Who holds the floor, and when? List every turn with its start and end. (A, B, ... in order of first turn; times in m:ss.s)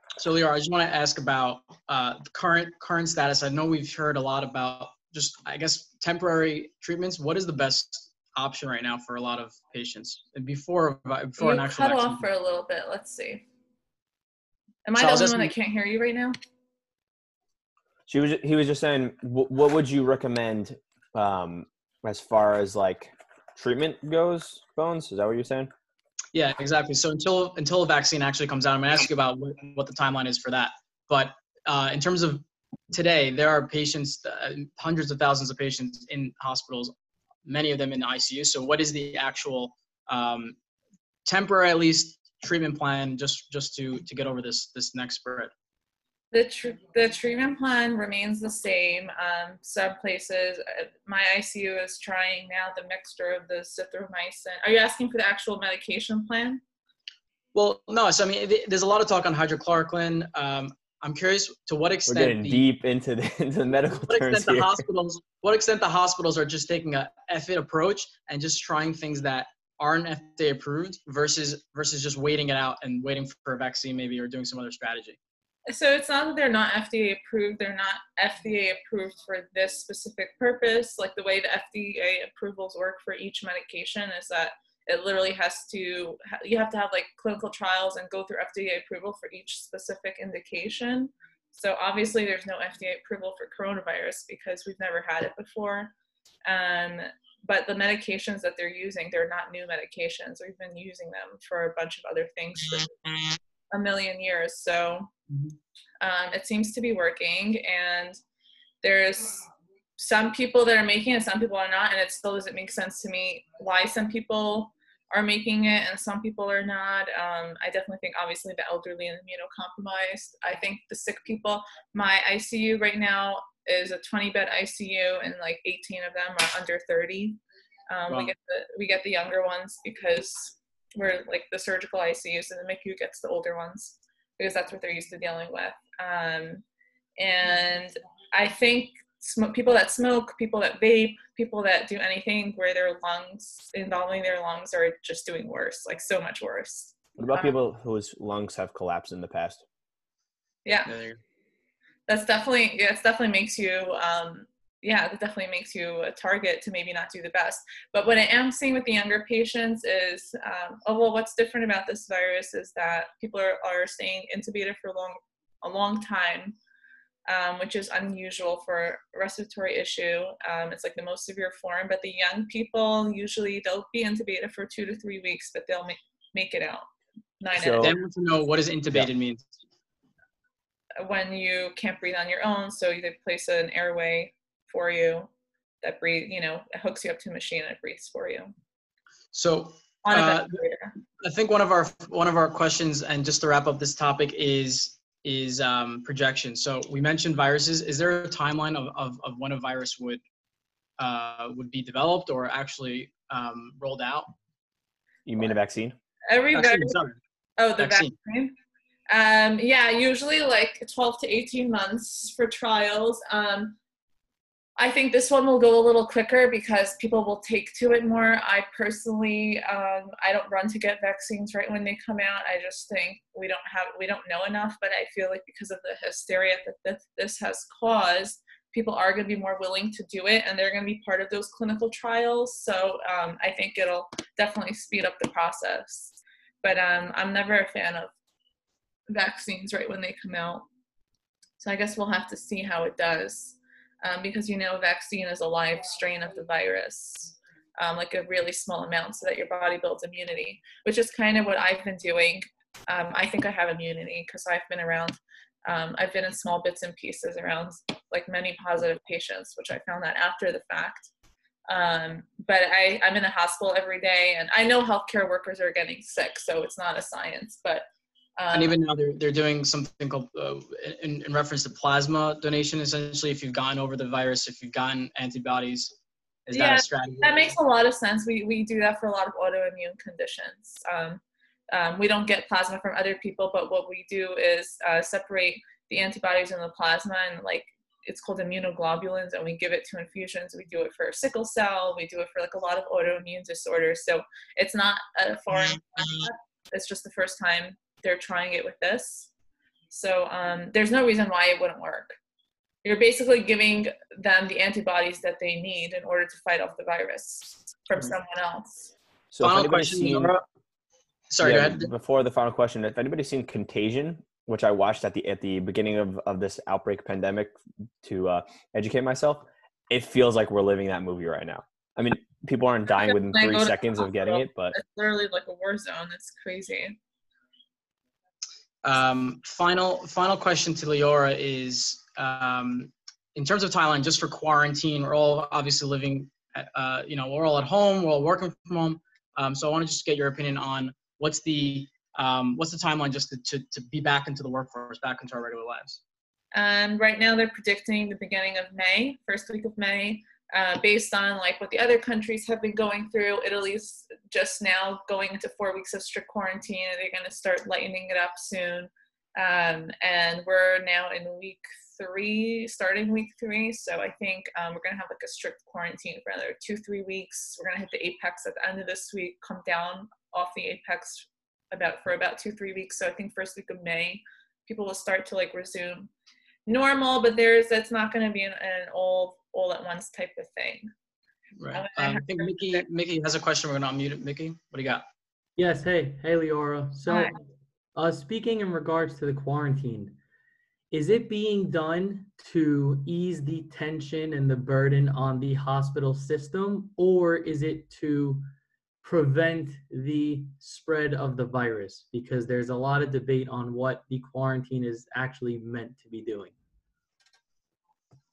0:00.2-0:12.2 A
0:11.4-0:13.4 B
0:14.9-0:16.4 B
0:15.0-0:15.5 A
0:18.1-0:25.7 C
0:26.3-0:36.9 A
0:37.4-0:40.6 A
0:41.2-0:45.5 A
0:46.3-0:56.6 B
0:57.5-1:02.6 A
1:02.1-1:04.8 C
1:04.1-1:15.2 A
1:15.7-1:35.9 B
1:36.5-1:43.0 B
1:43.7-1:45.1 B
1:46.0-1:48.2 B
1:48.8-1:49.4 B
1:50.0-2:16.6 B
2:17.2-2:27.5 B
2:27.2-2:29.6 C
2:30.6-2:30.9 B
2:30.9-2:31.2 A
2:32.1-2:46.6 B
2:47.3-2:56.8 B
2:57.4-2:58.0 B
2:57.5-2:58.0 C
2:57.8-2:59.6 A
3:01.0-3:05.3 B
3:05.8-3:08.5 B
3:09.3-3:10.6 A
3:10.0-3:10.9 B
3:11.2-3:20.2 A
3:21.0-3:24.3 A
3:25.2-3:26.0 C
3:26.3-3:27.0 B
3:26.5-3:27.2 A
3:27.6-3:28.5 B
3:27.8-3:28.1 A
3:29.1-3:33.8 B
3:34.8-3:58.1 B
3:59.1-4:00.6 B
4:01.6-4:21.1 B
4:21.7-4:27.9 B
4:28.4-4:28.8 B
4:28.5-4:36.0 A
4:36.5-4:37.5 A
4:36.5-4:59.3 B
4:59.9-5:02.2 B
5:02.8-5:08.9 B
5:09.3-5:10.3 C
5:09.4-5:10.4 A
5:11.3-5:11.9 A
5:11.4-5:24.8 C
5:22.9-5:27.0 B
5:28.8-5:46.0 A
5:46.5-6:16.1 B
6:16.7-6:20.9 B
6:21.6-6:25.0 A
6:21.7-6:22.8 B
6:25.6-6:27.3 D
6:28.0-6:30.2 D
6:30.9-6:38.4 D
6:39.0-6:46.5 D